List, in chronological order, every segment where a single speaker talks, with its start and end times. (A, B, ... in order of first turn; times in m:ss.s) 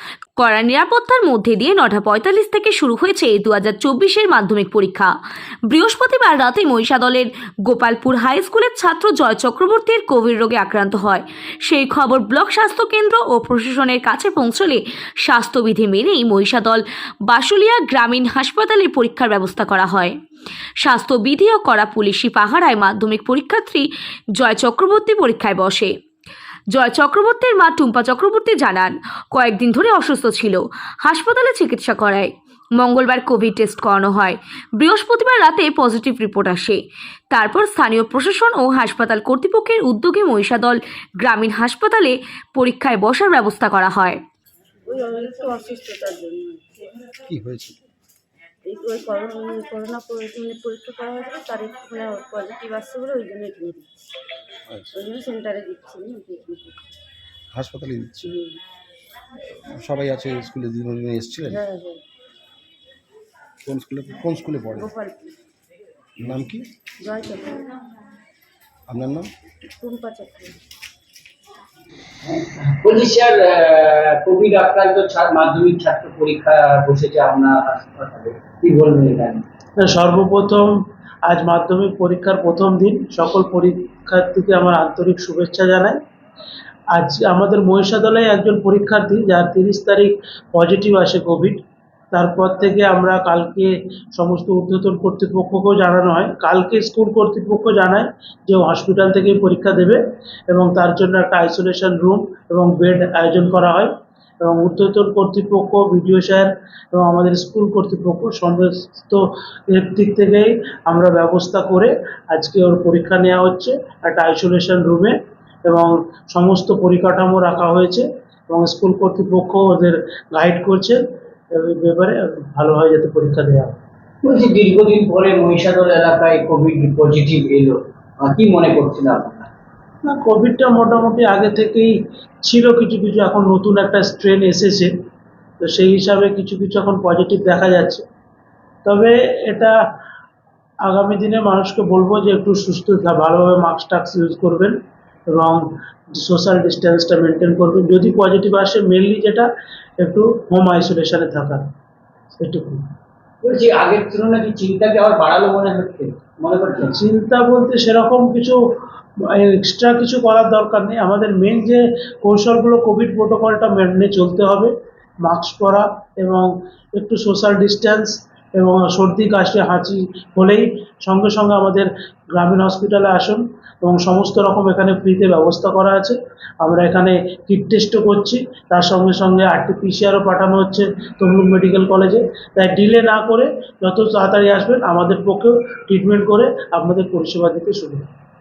0:00.4-0:05.1 A
0:05.7-0:20.2 A
0:20.8-0:25.9 A
0:26.7-0:36.8 A
0:37.3-0:44.2 A
0:44.9-0:46.6 B
0:47.2-0:47.8 C
0:48.6-0:53.9 B
0:54.7-0:54.9 C
0:54.9-0:56.8 B
0:57.5-0:58.3 C
0:58.2-0:58.6 B
0:59.6-1:01.6 C
1:01.5-1:02.0 B
1:03.6-1:04.9 C
1:04.8-1:05.4 B
1:06.2-1:06.7 C
1:07.0-1:07.6 B
1:08.9-1:09.3 C
1:09.8-1:10.6 B
1:12.2-1:19.4 D
1:19.8-1:26.0 E
1:26.9-1:31.6 E
1:32.1-1:43.9 E
1:44.4-2:01.0 E
2:01.5-2:03.8 E
2:04.2-2:09.5 D
2:10.0-2:14.9 E
2:15.6-2:18.0 E
2:18.8-2:19.7 E
2:20.8-2:24.8 E
2:25.3-2:29.5 E
2:30.0-2:31.6 E
2:32.4-2:32.8 E
2:33.4-2:37.0 D
2:36.9-2:38.6 E
2:39.3-2:44.7 E
2:45.2-3:08.1 E